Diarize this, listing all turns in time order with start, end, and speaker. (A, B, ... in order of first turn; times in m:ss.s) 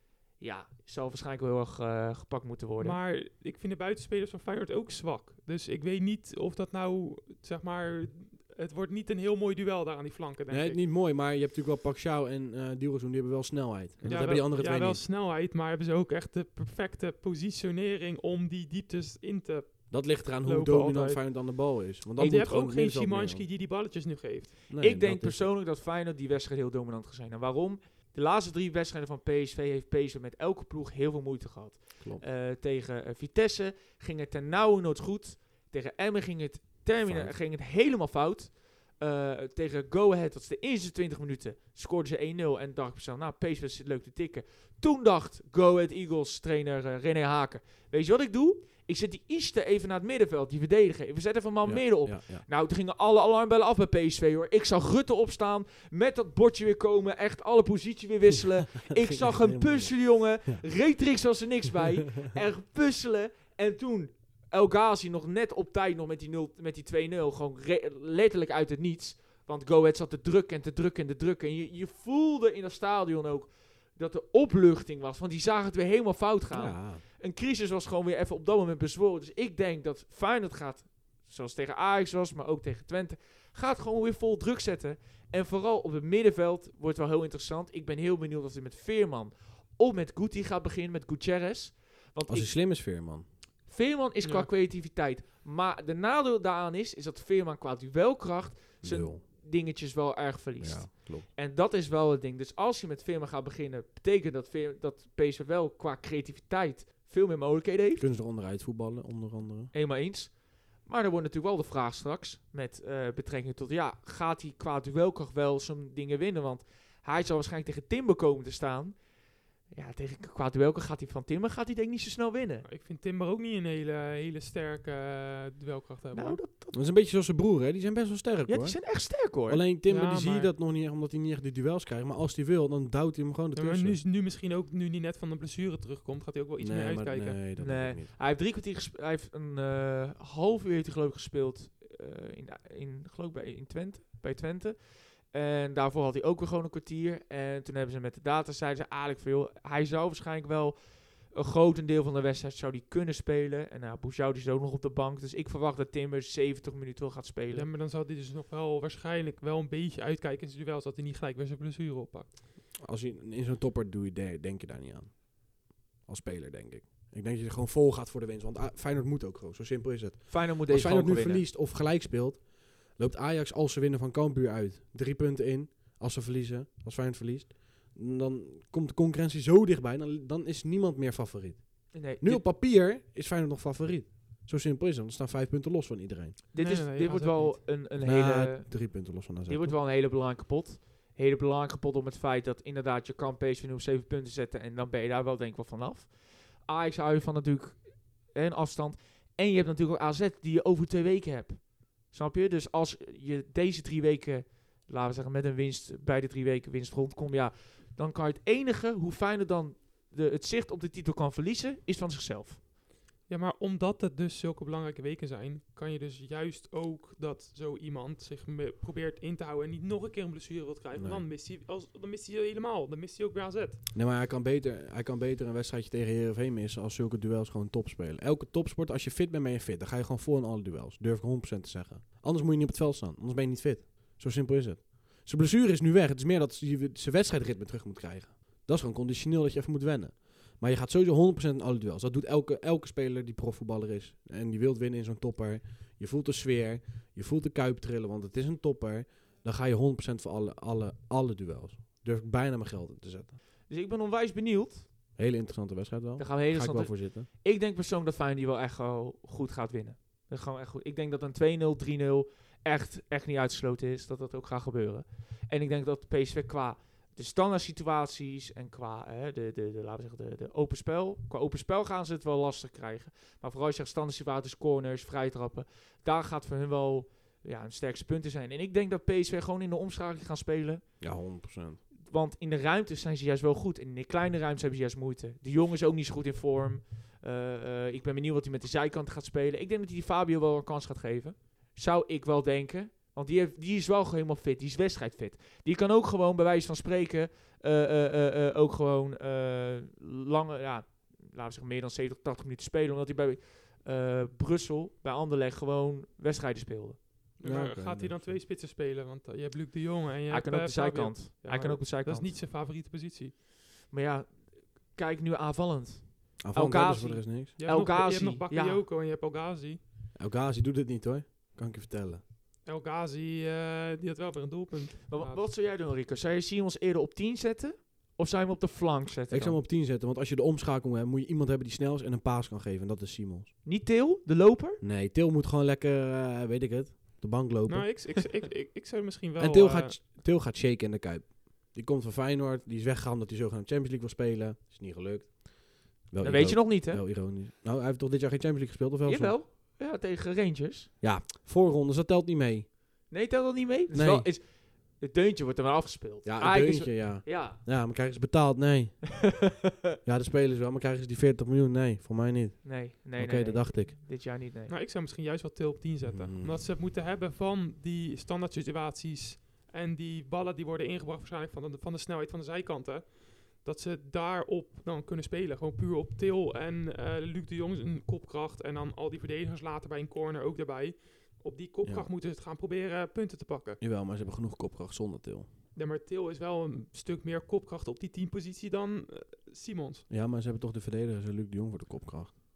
0:00.4-0:03.0 A
0:02.8-0:10.8 B
0:10.5-0:15.0 C
0:14.0-0:21.5 B
0:19.9-0:23.5 C
0:22.2-0:24.6 B
0:24.7-0:25.5 C
0:24.8-1:32.6 A
0:37.0-0:37.4 C
0:51.6-0:52.5 C
0:58.9-1:00.6 C
1:16.5-1:17.0 C
1:32.3-1:33.2 C
1:33.7-1:48.0 A
1:34.2-1:34.5 B
1:38.8-1:39.2 C
1:40.6-1:41.3 C
1:48.0-1:49.7 C
1:49.7-1:59.0 A
1:59.7-2:02.6 A
2:02.6-2:06.4 B
2:06.1-2:06.8 A
2:06.7-2:14.0 C
2:08.5-2:09.6 A
2:09.9-2:10.5 B
2:13.6-2:17.4 B
2:16.6-2:18.1 C
2:17.6-2:37.7 A
2:37.5-2:42.3 B
2:42.8-2:45.4 C
2:46.0-3:06.4 C
2:50.3-2:51.4 A
3:01.9-3:02.5 A
3:06.5-3:32.6 A
3:06.6-3:07.6 B
3:08.0-3:09.8 C
3:33.3-3:43.8 B
3:40.9-3:41.2 C
3:43.9-4:13.4 C
4:13.7-4:14.9 A
4:15.2-4:17.3 C
4:16.2-4:40.8 A
4:41.0-4:41.8 C
4:42.0-5:07.0 A
5:07.4-5:13.3 B
5:07.4-5:08.4 C
5:10.3-5:12.4 A
5:13.9-5:18.8 A
5:16.4-5:17.6 C
5:17.6-5:19.8 B
5:20.2-5:22.2 C
5:22.6-5:25.4 B
5:25.1-5:29.6 A
5:29.3-5:33.5 C
5:33.6-5:34.8 A
5:34.8-5:38.0 C
5:37.7-5:40.0 B
5:39.4-5:49.4 C
5:46.2-5:47.0 A
5:49.0-5:50.9 A
5:51.0-5:52.7 C
5:53.1-5:57.6 A
5:53.9-5:54.3 C
5:56.2-5:59.2 C
5:59.4-6:00.0 A
6:00.0-6:03.9 C
6:02.6-6:04.7 A
6:04.7-6:23.8 B
6:06.1-6:06.6 C
6:21.8-6:22.1 C
6:23.8-6:25.5 C
6:25.8-6:30.1 B
6:30.1-6:32.3 C